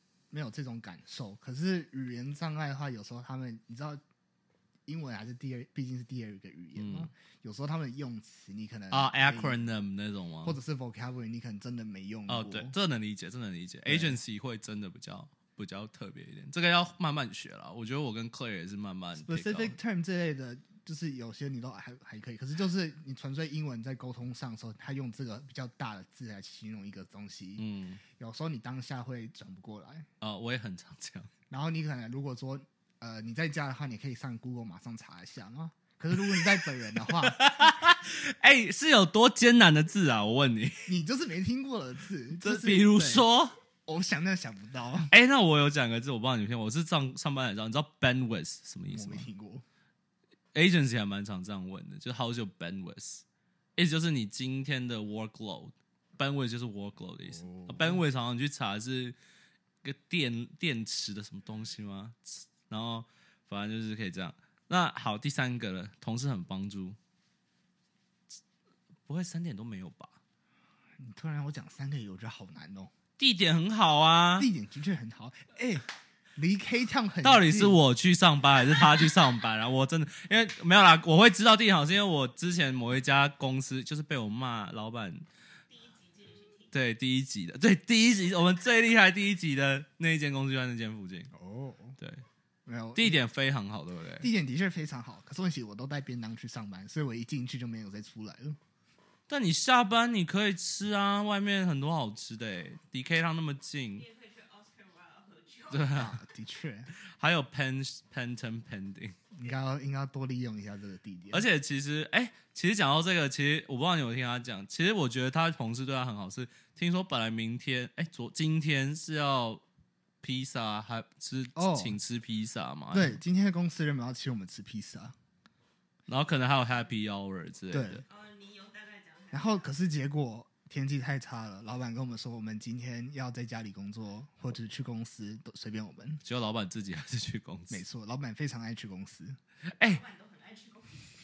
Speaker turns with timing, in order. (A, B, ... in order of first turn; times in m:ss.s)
0:00.3-0:04.0 A
0:04.9-0:09.6 A
0:06.8-0:07.1 B
0:08.9-0:10.6 B
0:10.4-0:12.7 A
0:12.3-0:19.8 B
0:13.9-0:14.2 A
0:19.2-0:30.1 A
0:27.6-0:28.0 B
0:30.2-0:31.3 B
0:31.5-0:37.8 A
0:37.0-0:40.9 B
0:40.9-0:43.3 A
0:42.4-0:43.6 B
0:43.9-0:45.1 A
0:45.1-0:49.3 B
0:48.9-0:49.6 A
0:50.5-0:53.2 B
0:53.8-0:59.2 B
0:57.3-0:58.0 A
0:59.8-1:07.0 B
1:09.1-1:10.2 B
1:11.0-1:12.9 A
1:13.2-1:14.5 B
1:14.4-1:15.8 A
1:16.4-1:17.8 A
1:17.2-1:25.2 B
1:25.8-1:26.6 C
1:26.7-1:31.3 B
1:31.3-1:32.0 A
1:32.0-1:32.2 B
1:32.7-1:33.2 A
1:33.0-1:34.3 B
1:34.2-1:38.6 A
1:39.3-1:44.1 B
1:44.1-1:45.7 C
1:45.7-1:46.2 B
1:45.9-1:46.9 A
1:47.0-1:49.2 B
1:49.3-1:51.4 A
1:51.3-1:59.6 B
2:00.2-2:03.2 B
2:01.6-2:02.0 A
2:02.9-2:05.2 A
2:06.1-2:08.1 B
2:07.7-2:08.0 A
2:08.1-2:09.4 C
2:09.3-2:16.2 A
2:16.2-2:17.8 B
2:17.7-2:19.4 A
2:19.7-2:20.0 B
2:20.1-2:21.0 C